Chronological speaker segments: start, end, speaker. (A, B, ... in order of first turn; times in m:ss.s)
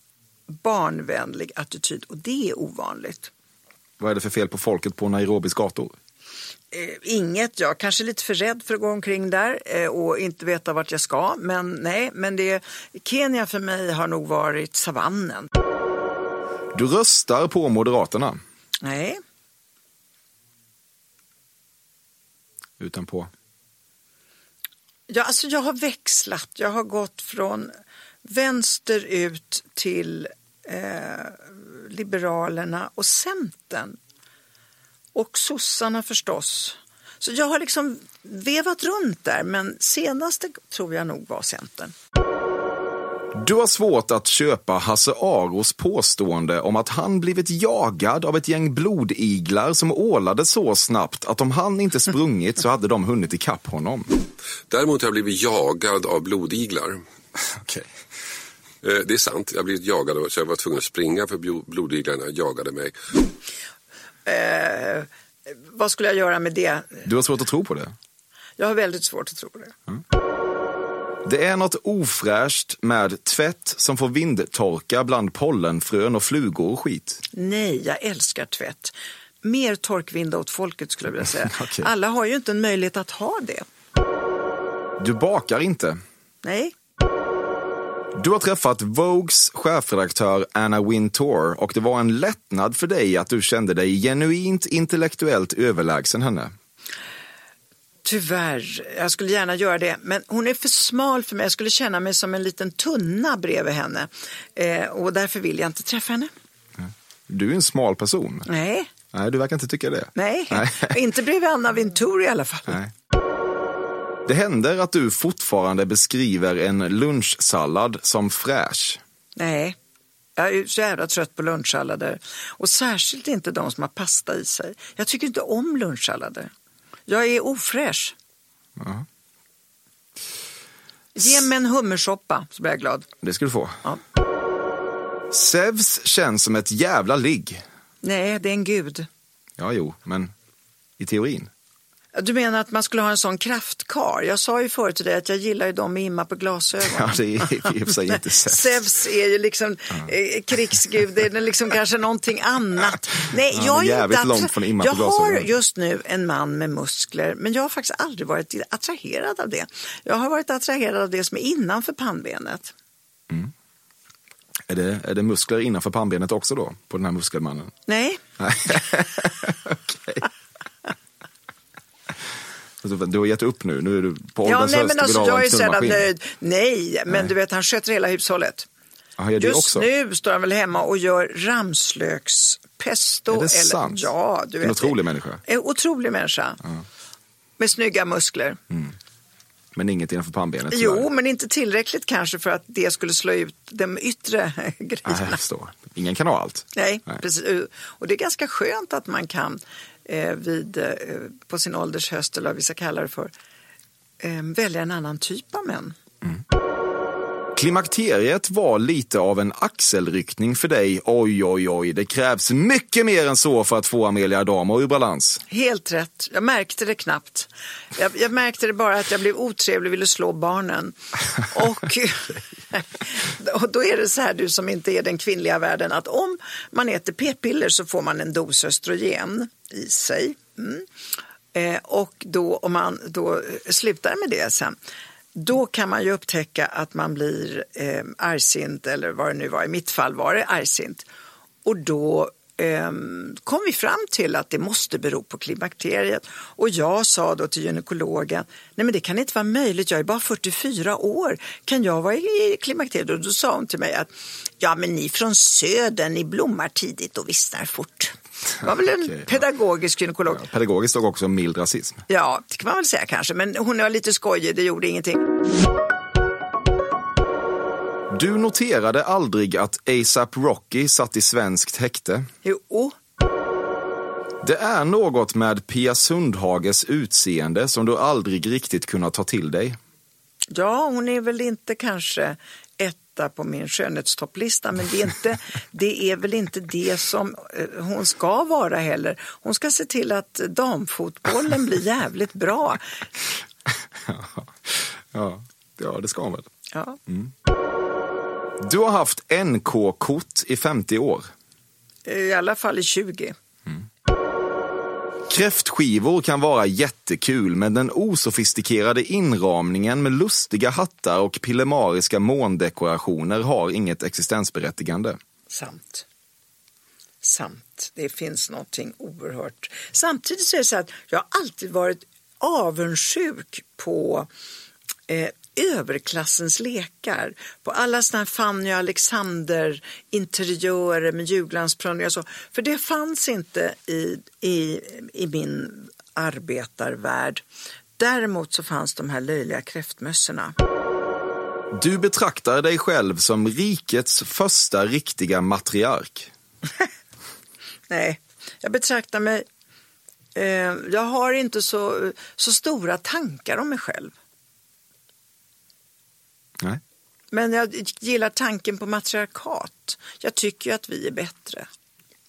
0:00.5-0:03.3 A
0:04.0-0:06.0 B
0:06.7-0:15.5 A
0:16.7-0:18.4 B
0:18.8-0:19.2 A
0:22.8-0:23.3 B
0:25.1-0:27.7 A
0:28.2-0:34.0 A
0:35.1-0:41.9 A
0:43.3-0:54.2 B
0:54.7-0:57.0 C
0:57.4-0:57.9 B
0:58.8-1:03.0 C
1:04.2-1:07.0 A
1:07.0-1:07.9 B
1:08.6-1:09.7 A
1:11.2-1:17.2 B
1:17.3-1:23.6 A
1:21.4-1:21.9 B
1:25.0-1:26.0 B
1:26.4-1:26.7 A
1:28.1-1:36.5 B
1:38.0-1:46.3 A
1:46.8-1:48.5 B
1:48.5-1:48.9 A
1:49.1-1:51.0 B
1:50.1-1:52.8 A
1:54.2-1:59.0 B
1:59.4-1:59.8 A
2:00.4-2:06.5 A
2:07.1-2:08.1 A
2:08.8-2:09.0 B
2:11.1-2:13.1 A
2:13.2-2:13.8 B
2:15.3-2:17.6 B
2:18.0-2:19.1 A
2:19.6-2:20.3 B
2:21.0-2:21.5 B
2:22.2-2:42.7 A
2:26.8-2:28.8 B
2:33.5-2:35.5 B
2:44.7-2:47.7 B
2:47.9-2:48.2 A
2:48.4-2:50.3 B
2:52.8-2:56.1 B
2:54.4-2:58.7 A
2:59.2-2:59.9 B
2:59.4-3:06.6 A
3:03.3-3:05.4 B
3:07.6-3:08.6 A
3:09.7-3:11.1 B
3:10.7-3:15.4 A
3:15.0-3:17.2 B
3:16.7-3:23.3 A
3:24.2-3:26.0 A
3:27.6-3:35.4 B
3:35.5-3:50.8 A
3:51.5-3:54.8 A
3:55.3-4:01.0 A
4:01.6-4:20.4 A
4:20.3-4:22.0 B
4:22.1-4:25.2 A
4:28.1-4:32.3 B
4:32.4-4:32.9 A
4:34.4-4:39.8 B
4:40.5-4:52.8 A
4:53.7-4:56.5 B
4:56.7-4:57.0 A
4:57.1-4:57.3 B
4:58.6-5:01.3 B
5:02.0-5:03.3 A
5:05.3-5:15.2 B
5:15.5-5:16.0 A
5:17.2-5:24.3 A
5:25.1-5:37.4 A
5:38.0-5:40.5 A
5:41.7-5:46.3 B
5:47.9-5:49.4 A
5:50.3-5:54.1 A
5:57.3-6:01.6 A